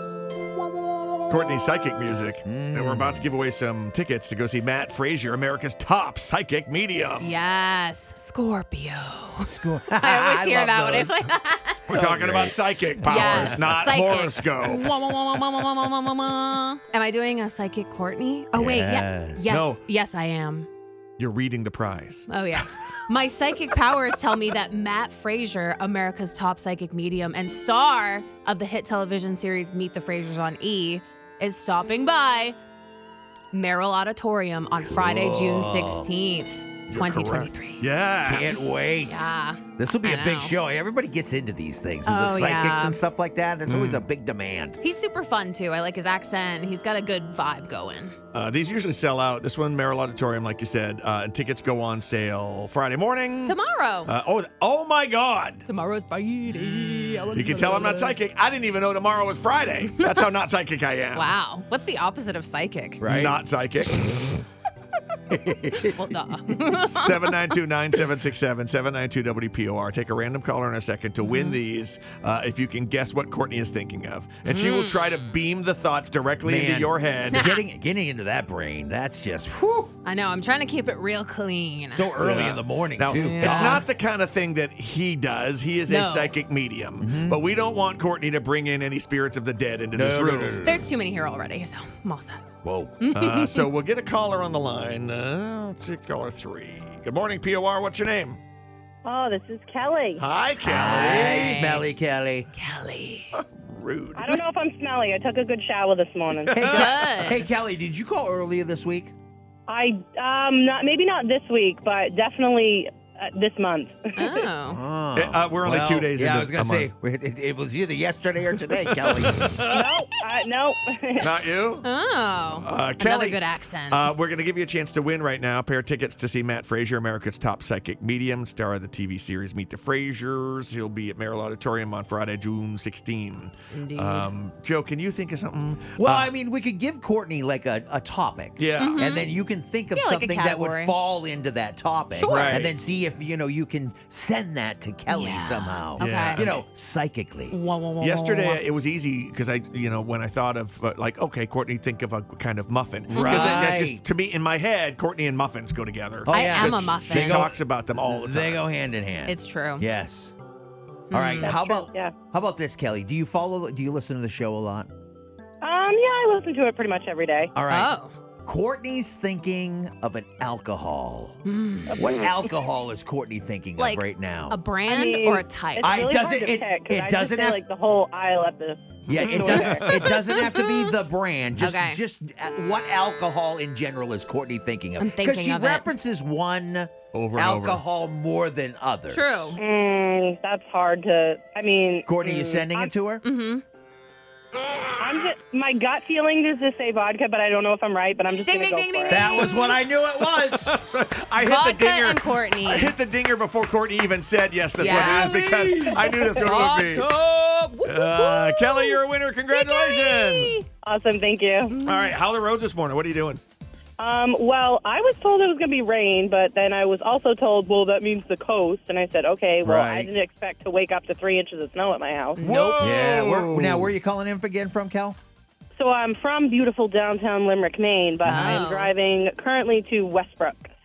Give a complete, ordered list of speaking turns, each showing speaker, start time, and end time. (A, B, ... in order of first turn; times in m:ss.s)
0:01.3-0:07.3 A
0:02.4-0:03.3 B
0:07.2-0:11.8 C
0:09.5-0:11.3 B
0:11.8-0:13.9 B
0:11.9-0:15.6 A
0:13.0-0:20.7 C
0:18.5-0:19.6 B
0:19.4-0:19.8 A
0:21.2-0:22.3 A
0:22.3-0:32.6 C
0:33.5-0:37.9 C
0:34.8-0:36.1 B
0:36.9-0:38.7 A
0:38.2-0:44.8 B
0:39.0-0:40.5 C
0:42.1-0:43.0 C
0:43.7-0:44.1 A
0:44.8-0:48.2 C
0:48.3-0:55.7 A
0:53.5-0:54.1 C
0:55.7-0:58.2 C
0:57.3-1:01.3 A
0:59.9-1:00.3 C
1:01.1-1:03.0 C
1:03.0-1:03.4 B
1:03.0-1:04.1 A
1:05.3-1:06.2 B
1:05.7-1:07.6 C
1:06.9-1:17.5 A
1:11.2-1:11.6 C
1:14.4-1:15.2 C
1:16.4-1:19.9 B
1:17.3-1:17.6 C
1:20.0-1:22.3 C
1:21.9-1:23.8 B
1:22.2-1:30.7 A
1:23.1-1:23.9 C
1:25.9-1:26.4 C
1:27.0-1:27.4 B
1:30.0-1:30.9 B
1:30.6-1:32.5 C
1:32.6-1:33.0 B
1:33.0-1:33.7 C
1:33.1-1:38.4 A
1:39.0-1:40.2 D
1:40.2-1:41.7 A
1:40.6-1:42.5 B
1:40.8-1:41.9 C
1:42.6-1:43.3 C
1:43.3-1:44.4 A
1:44.2-1:46.5 D
1:46.5-1:46.9 A
1:46.5-1:49.1 B
1:46.6-1:47.5 C
1:49.7-1:54.5 D
1:54.2-1:54.8 C
1:54.7-1:59.6 B
1:55.2-1:56.9 A
1:58.7-1:59.9 A
1:59.7-2:01.3 D
2:01.2-2:01.9 A
2:01.8-2:04.1 C
2:02.5-2:16.3 A
2:13.7-2:14.3 C
2:16.0-2:27.6 B
2:18.6-2:19.2 A
2:18.8-2:19.4 C
2:19.9-2:21.0 C
2:22.1-2:22.6 C
2:22.2-2:22.7 A
2:25.1-2:26.4 C
2:26.0-2:26.6 A
2:27.5-2:28.6 C
2:28.0-2:38.6 A
2:33.1-2:34.0 B
2:33.1-2:33.7 C
2:36.2-2:40.3 B
2:36.3-2:37.5 C
2:39.3-2:39.9 C
2:41.1-2:41.5 C
2:41.1-2:44.9 B
2:41.4-2:42.2 D
2:45.6-2:47.5 D
2:47.6-2:51.4 B
2:47.7-2:48.2 C
2:51.4-2:52.3 C
2:51.9-2:52.3 D
2:51.9-2:54.6 B
2:53.8-2:56.0 C
2:54.9-3:00.2 D
2:55.8-2:57.6 B
2:59.1-3:00.2 A
2:59.1-3:09.6 B
3:00.2-3:01.0 C
3:01.6-3:02.0 C
3:05.0-3:05.9 C
3:07.1-3:07.8 A
3:09.1-3:09.6 C
3:09.6-3:12.9 D
3:12.1-3:13.2 B
3:13.2-3:13.6 C
3:15.0-3:19.4 D
3:18.4-3:19.8 C
3:19.1-3:20.8 B
3:20.4-3:27.1 A
3:21.4-3:23.0 C
3:24.8-3:30.7 C
3:24.8-3:26.5 B
3:27.8-3:30.6 A
3:30.8-3:31.8 D
3:31.7-3:32.2 C
3:31.8-3:33.4 A
3:34.0-3:42.4 D
3:39.6-3:40.1 B
3:42.4-3:43.2 C
3:42.4-3:43.9 A
3:42.8-3:45.2 B
3:45.8-3:50.7 D
3:48.2-3:48.6 B
3:48.2-3:48.9 C